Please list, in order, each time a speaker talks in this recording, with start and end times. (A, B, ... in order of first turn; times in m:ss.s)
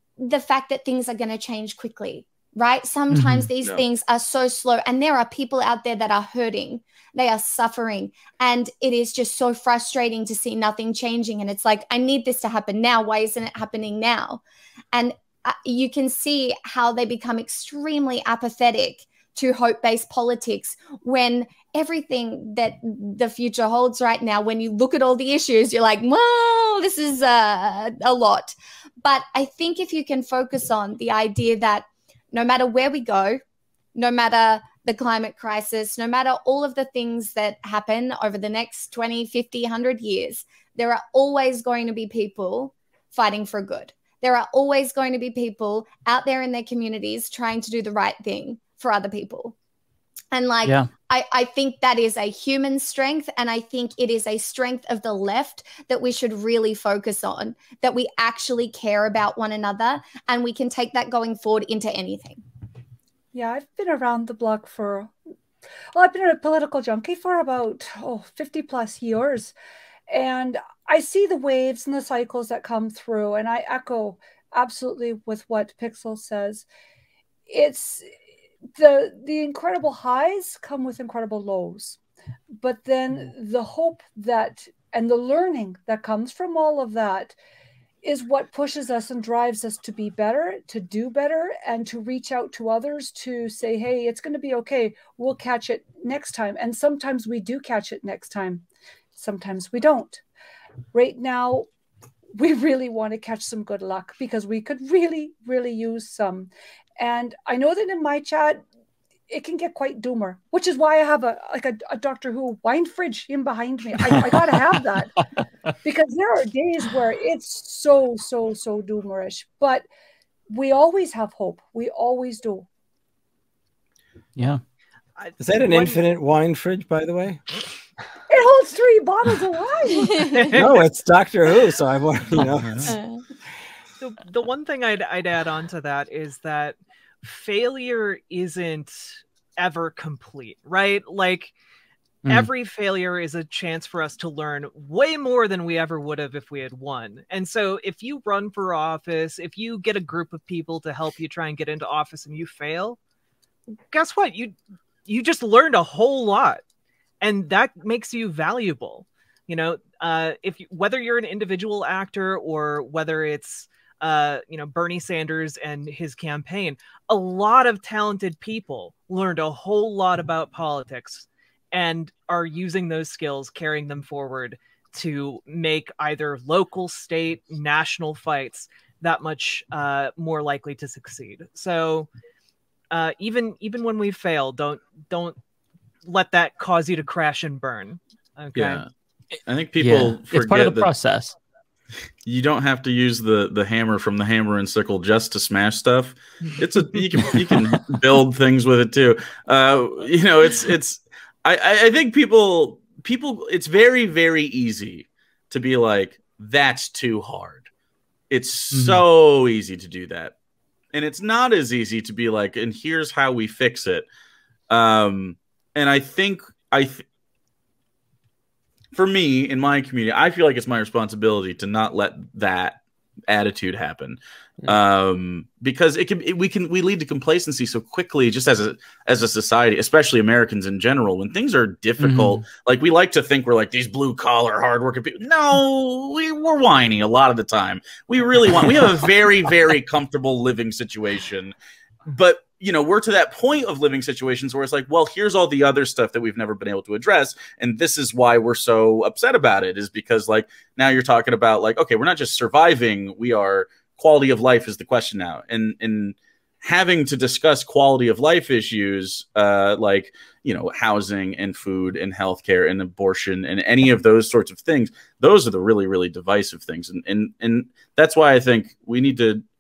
0:00.2-0:14.4 A
0:03.1-0:03.5 B
0:14.9-0:33.4 A
0:33.9-0:49.5 A
0:50.3-1:02.4 A
0:50.6-0:50.9 B
1:03.3-1:05.1 C
1:05.9-1:09.5 C
1:10.1-1:16.6 C
1:17.5-1:18.1 C
1:18.7-1:22.0 C
1:22.6-1:27.4 C
1:28.0-1:38.6 C
1:39.2-1:40.2 C
1:40.9-1:41.7 C
1:42.4-1:48.6 C
1:49.3-1:55.2 C
1:55.8-1:59.8 C
2:00.5-2:02.7 C
2:05.2-2:06.0 D
2:05.4-2:07.4 E
2:08.3-2:10.3 C
2:10.0-2:10.2 A
2:10.3-2:10.9 D
2:10.5-2:12.9 E
2:12.9-2:13.2 A
2:14.0-2:21.5 D
2:22.2-2:22.5 B
2:22.3-2:33.0 D
2:33.7-2:36.6 D
2:37.2-3:02.1 D
3:02.9-3:05.4 D
3:06.0-3:08.8 D
3:08.6-3:08.9 F
3:09.5-3:10.9 F
3:09.8-3:11.4 B
3:12.2-3:27.7 F
3:17.1-3:17.8 B
3:28.3-3:30.3 F
3:28.7-3:29.0 B
3:30.9-3:34.0 F
3:34.7-3:37.0 F
3:38.9-4:01.6 F
3:52.0-3:52.4 B
4:02.0-4:29.4 F